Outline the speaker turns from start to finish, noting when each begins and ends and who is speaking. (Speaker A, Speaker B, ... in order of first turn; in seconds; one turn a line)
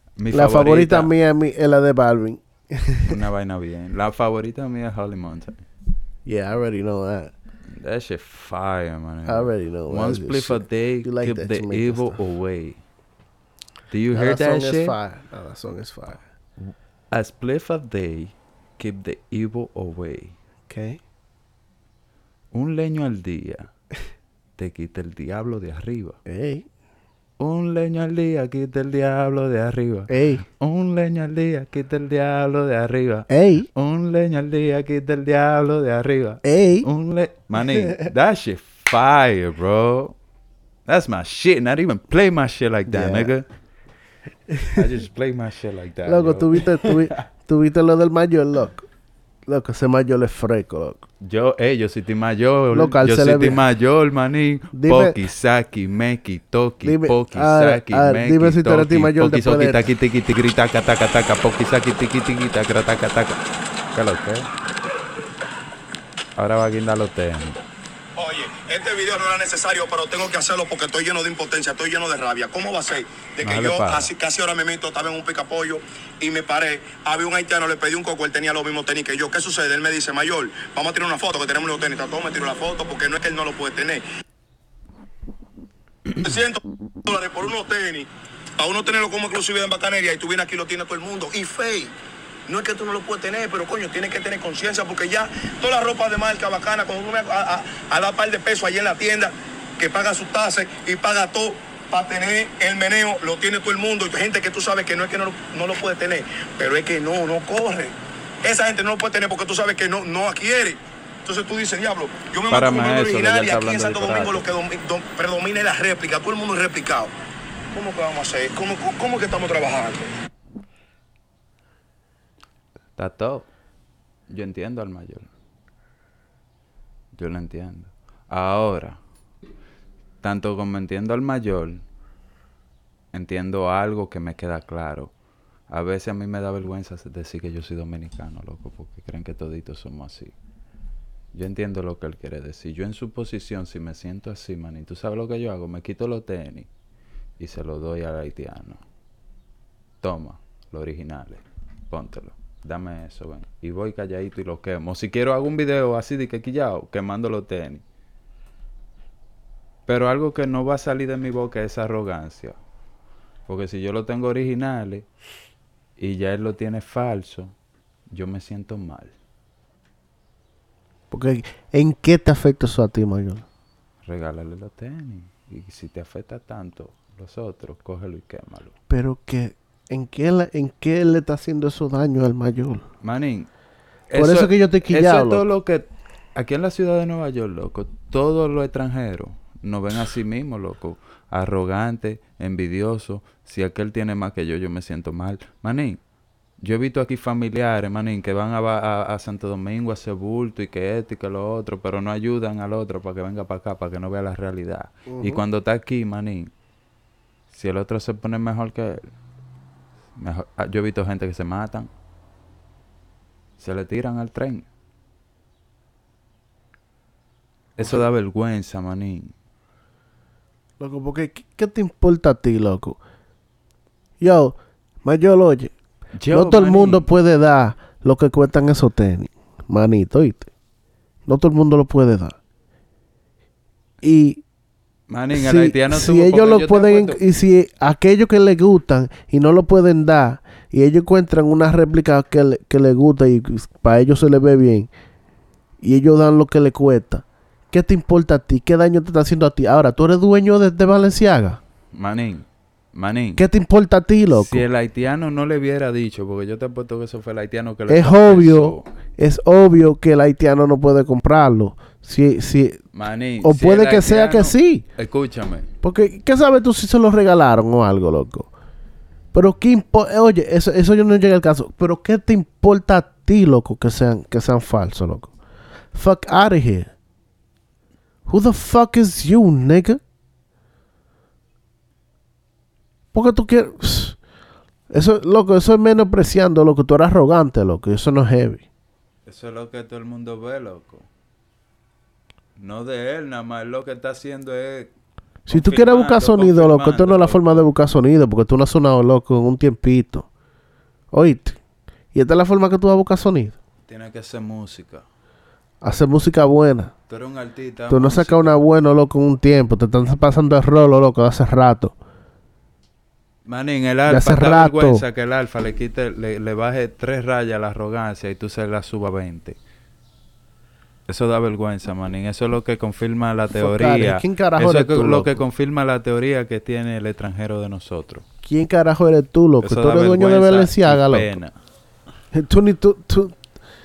Speaker A: 0.2-1.1
Speaker B: 0.3-3.2
Speaker A: 3.0-5.6
Speaker B: 6.2-7.3
Speaker A: 7.7-12.8
Speaker B: 9.2-12.2
Speaker A: 13.9-14.9
Speaker B: 14.1-16.2
Speaker A: 16.6-20.3
Speaker B: 20.7-21.0
Speaker A: 22.5-23.7
Speaker A: 24.6-26.2
Speaker B: 26.2-26.6
Speaker A: 27.4-40.1
Speaker B: 30.1-30.4
Speaker B: 33.3-33.7
Speaker B: 36.4-36.9
Speaker B: 37.6-38.0
Speaker A: 40.9-43.5
Speaker B: 42.9-43.3
Speaker B: 44.5-44.8
Speaker A: 44.7-47.2
Speaker B: 46.0-48.9
Speaker B: 49.5-51.0
Speaker A: 51.2-63.4
Speaker B: 52.7-53.6
Speaker B: 54.7-55.1
Speaker B: 56.8-59.9
Speaker A: 63.9-64.5
Speaker A: 66.3-67.6
Speaker C: 68.2-84.0
Speaker A: 73.4-74.1
Speaker C: 86.2-88.1
Speaker C: 88.6-91.9
Speaker C: 92.5-107.9
Speaker C: 108.4-117.1
Speaker A: 112.5-114.5
Speaker C: 117.7-120.1
Speaker A: 123.0-123.5
Speaker A: 124.3-125.3
Speaker A: 127.2-129.0
Speaker A: 130.2-131.8
Speaker A: 133.1-135.1
Speaker A: 135.7-140.3
Speaker A: 141.3-146.7
Speaker A: 147.4-148.8
Speaker A: 150.0-157.8
Speaker A: 159.9-162.6
Speaker A: 163.5-165.1
Speaker A: 166.0-167.5
Speaker A: 168.1-169.1
Speaker B: 171.1-173.4
Speaker A: 174.0-178.8
Speaker B: 178.9-182.8
Speaker A: 183.0-183.5
Speaker A: 184.1-196.0
Speaker B: 184.1-185.4
Speaker A: 196.6-206.5
Speaker B: 205.1-205.4
Speaker A: 207.5-209.1
Speaker A: 210.2-211.9
Speaker A: 213.6-214.7
Speaker A: 217.8-219.3
Speaker B: 220.8-223.0
Speaker B: 224.2-225.7
Speaker A: 226.2-227.1
Speaker B: 226.3-230.5
Speaker B: 231.2-232.4
Speaker B: 234.0-234.4
Speaker A: 235.1-237.2
Speaker B: 235.3-244.9
Speaker B: 245.8-251.6
Speaker A: 251.9-253.4
Speaker B: 253.3-254.6
Speaker A: 254.3-258.9
Speaker B: 257.9-262.8
Speaker A: 262.9-265.7
Speaker B: 263.4-264.8
Speaker B: 265.8-268.5
Speaker B: 269.3-275.3
Speaker B: 275.9-276.9
Speaker B: 278.2-280.0
Speaker B: 283.1-284.2
Speaker B: 284.9-288.6
Speaker A: 289.2-291.1
Speaker A: 292.6-294.9
Speaker B: 295.5-300.3
Speaker A: 295.5-297.6
Speaker B: 301.1-301.6
Speaker B: 302.1-303.6
Speaker A: 303.9-305.0
Speaker B: 305.8-306.9
Speaker A: 307.1-308.6
Speaker B: 307.9-311.9
Speaker A: 313.4-319.6
Speaker B: 314.1-315.0
Speaker A: 321.1-328.2
Speaker B: 323.6-325.4
Speaker B: 328.4-331.3
Speaker A: 329.6-331.5
Speaker B: 332.3-333.4